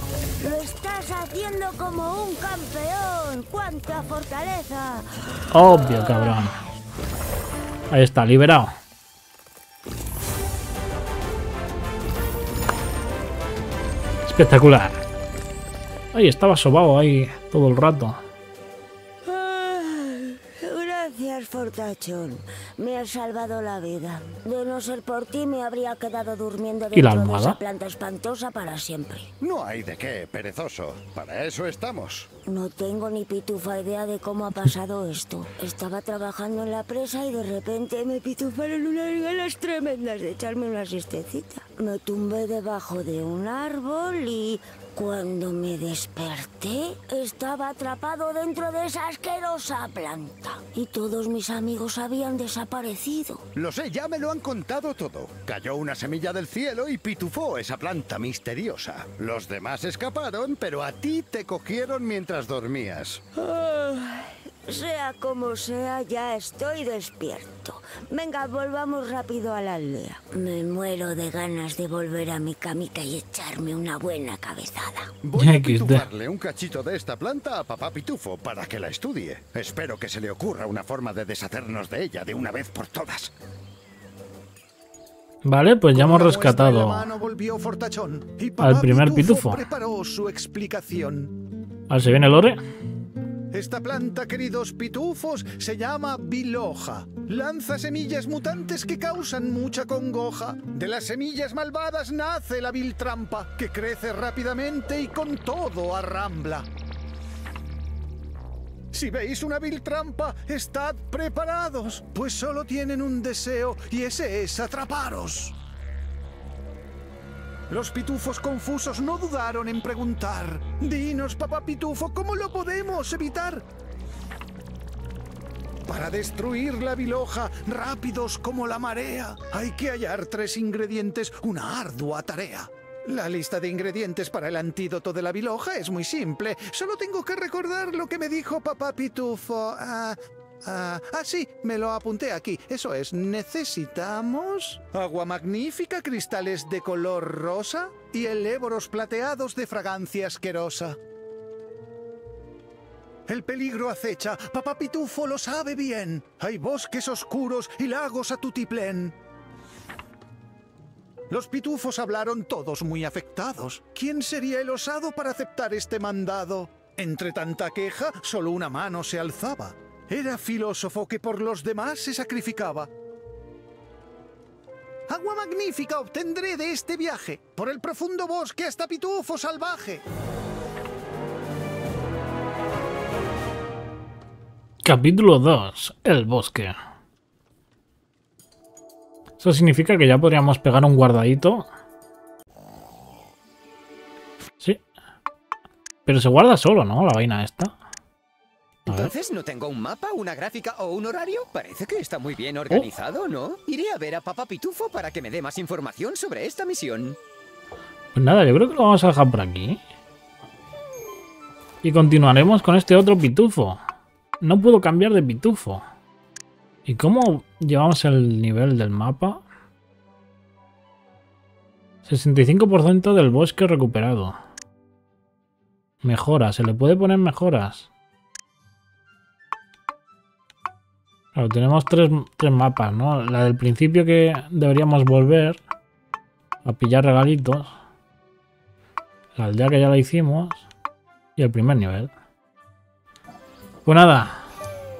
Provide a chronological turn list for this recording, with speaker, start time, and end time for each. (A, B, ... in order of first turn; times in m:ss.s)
0:00.4-0:06.6 A
0:05.5-0:06.6 B
0:07.9-0:08.7 B
0:14.2-0:15.0 B
0:16.1-0:18.2 B
0:19.2-0:29.3 A
0:26.9-0:27.6 B
0:29.4-0:32.3 C
0:32.5-0:53.4 A
0:53.5-1:03.2 C
1:03.4-1:15.2 A
1:15.2-1:23.3 C
1:15.4-1:16.0 B
1:25.4-1:27.0 B
1:25.9-1:31.3 D
1:28.6-1:29.6 B
1:31.9-1:32.6 B
1:33.5-1:46.7 D
1:48.9-1:55.5 D
1:57.7-2:03.6 D
2:05.8-2:31.0 D
2:33.3-2:39.2 D
2:41.3-2:52.9 D
2:55.1-3:00.0 D
3:04.8-3:06.8 B
3:09.4-3:11.7 B
3:16.0-3:17.7 B
3:18.9-3:19.1 B
3:18.9-3:27.2 E
3:28.1-3:29.8 B
3:31.8-3:33.8 B
3:34.4-3:35.8 B
3:36.8-3:39.4 B
3:42.1-3:44.4 B
3:46.0-3:47.9 B
3:51.4-3:55.6 B
3:56.6-3:57.7 B
3:59.4-4:00.6 B
4:01.4-4:02.1 B
4:03.8-4:04.4 B